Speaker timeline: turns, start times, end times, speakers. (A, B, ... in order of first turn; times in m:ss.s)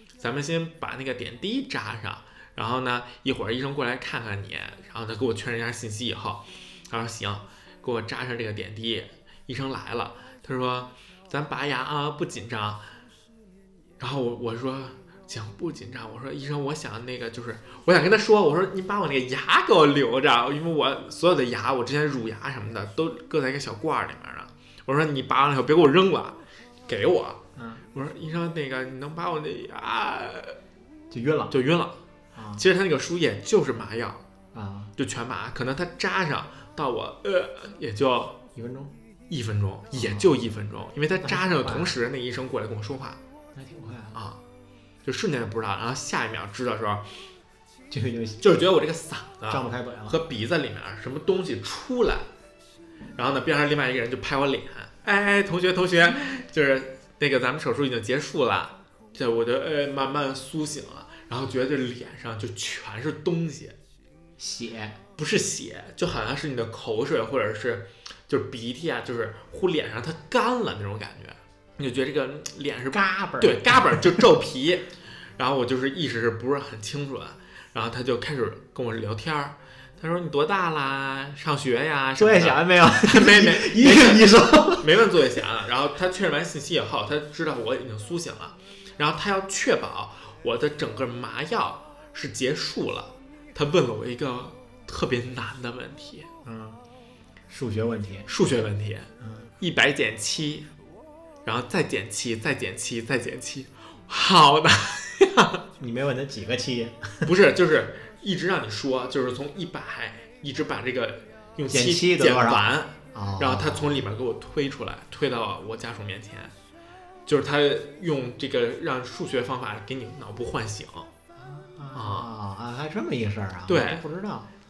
0:00.2-0:12.9 A
0:14.0-0:27.4 A
0:27.6-0:27.8 B
0:27.9-0:30.6 A
0:31.1-0:31.5 B
0:31.5-0:32.0 A
0:32.3-0:32.6 B
0:32.6-0:34.2 A
0:34.5-0:34.9 B
0:35.0-0:38.4 A
0:38.5-0:38.9 B
0:39.3-0:43.2 A
0:39.9-0:40.4 B
0:41.2-0:41.9 B
0:43.5-0:44.2 B
0:44.1-0:44.4 A
0:45.0-0:47.1 A
0:47.9-0:48.6 B
0:48.4-0:52.3 A
0:49.5-0:50.2 B
0:53.1-1:03.8 A
1:04.4-1:05.0 B
1:05.2-1:36.3 A
1:12.9-1:14.3 B
1:22.2-1:24.9 B
1:36.4-1:36.8 B
1:37.5-1:38.3 B
1:38.3-1:40.7 A
1:39.2-1:39.5 B
1:41.4-1:45.6 A
1:45.8-1:47.3 B
1:47.2-1:56.5 A
1:51.7-1:54.0 B
1:57.2-2:01.1 A
2:01.4-2:04.5 B
2:01.9-2:02.3 A
2:03.7-2:04.0 A